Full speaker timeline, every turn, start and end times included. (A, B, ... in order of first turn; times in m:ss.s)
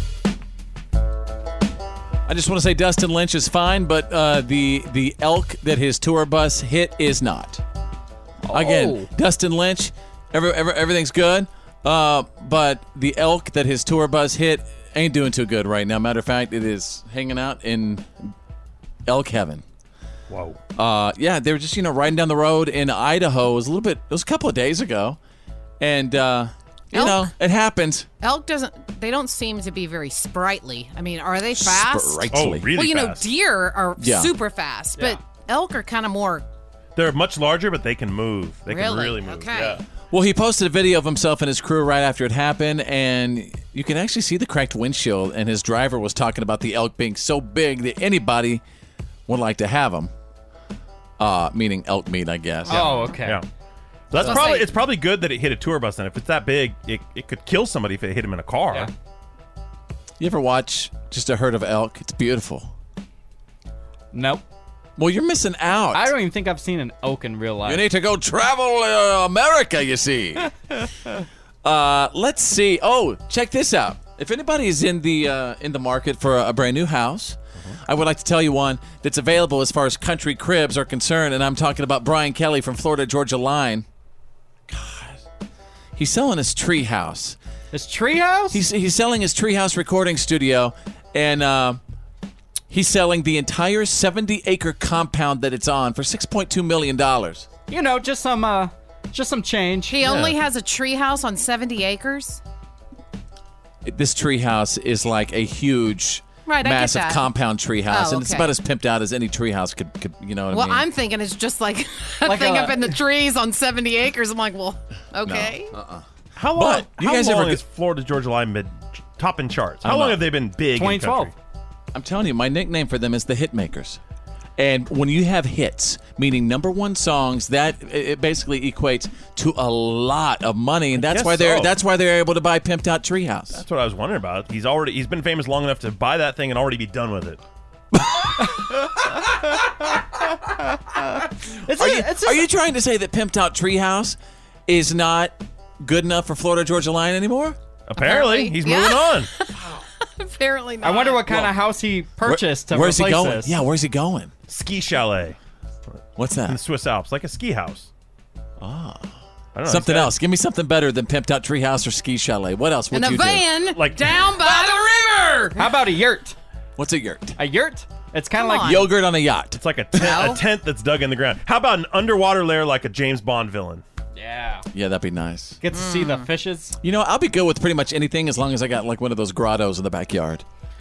0:02.3-0:07.6 A
0:08.4-0:09.1 B
0:08.5-0:18.3 A
0:19.1-0:19.6 A
0:20.3-0:20.6 C
0:20.8-0:25.2 A
0:25.8-0:28.1 A
0:26.9-0:27.3 D
0:28.2-0:36.5 D
0:31.6-0:32.7 A
0:32.3-0:33.3 C
0:34.0-0:34.3 A
0:37.0-0:39.8 C
0:38.7-0:39.8 D
0:40.1-0:48.6 A
0:49.3-0:50.1 A
0:51.2-0:53.1 A
0:52.7-0:53.4 B
0:52.7-0:53.4 C
0:54.1-0:58.9 C
0:54.2-0:54.7 D
1:00.2-1:02.7 A
1:04.1-1:04.4 B
1:05.0-1:06.1 A
1:05.9-1:07.8 B
1:07.6-1:10.5 A
1:11.6-1:23.8 A
1:24.7-1:25.2 A
1:26.0-1:27.4 A
1:27.7-1:28.6 B
1:28.5-1:31.8 A
1:32.7-1:37.5 A
1:37.7-1:40.3 B
1:39.9-1:42.4 D
1:43.8-1:50.9 A
1:46.5-1:47.3 D
1:47.9-1:48.5 D
1:50.5-1:55.7 D
1:52.2-1:52.9 B
1:55.2-1:57.6 A
1:56.4-2:01.3 C
1:59.8-2:00.2 A
2:00.7-2:01.3 B
2:01.9-2:04.0 A
2:04.6-2:13.6 A
2:11.0-2:11.7 C
2:13.5-2:17.4 C
2:18.0-2:18.2 A
2:21.7-2:22.5 B
2:21.7-2:27.6 A
2:27.9-2:29.3 C
2:28.0-2:29.6 D
2:30.2-2:31.2 D
2:30.8-2:33.6 B
2:31.3-2:31.5 A
2:32.2-2:34.3 A
2:34.5-2:35.4 C
2:36.2-2:36.6 A
2:36.5-2:37.9 C
2:38.6-2:39.1 A
2:39.6-2:40.1 C
2:39.7-2:43.5 A
2:42.9-2:44.9 D
2:43.8-2:44.5 C
2:45.0-2:45.5 C
2:45.6-2:46.4 B
2:46.8-2:47.4 A
2:47.4-2:48.9 B
2:48.4-2:48.9 D
2:48.6-2:50.0 A
2:49.6-2:53.8 C
2:50.0-2:50.4 D
2:54.2-2:54.6 B
2:54.7-2:55.6 A
2:55.6-2:56.8 B
2:55.7-2:56.3 D
2:56.8-3:00.4 A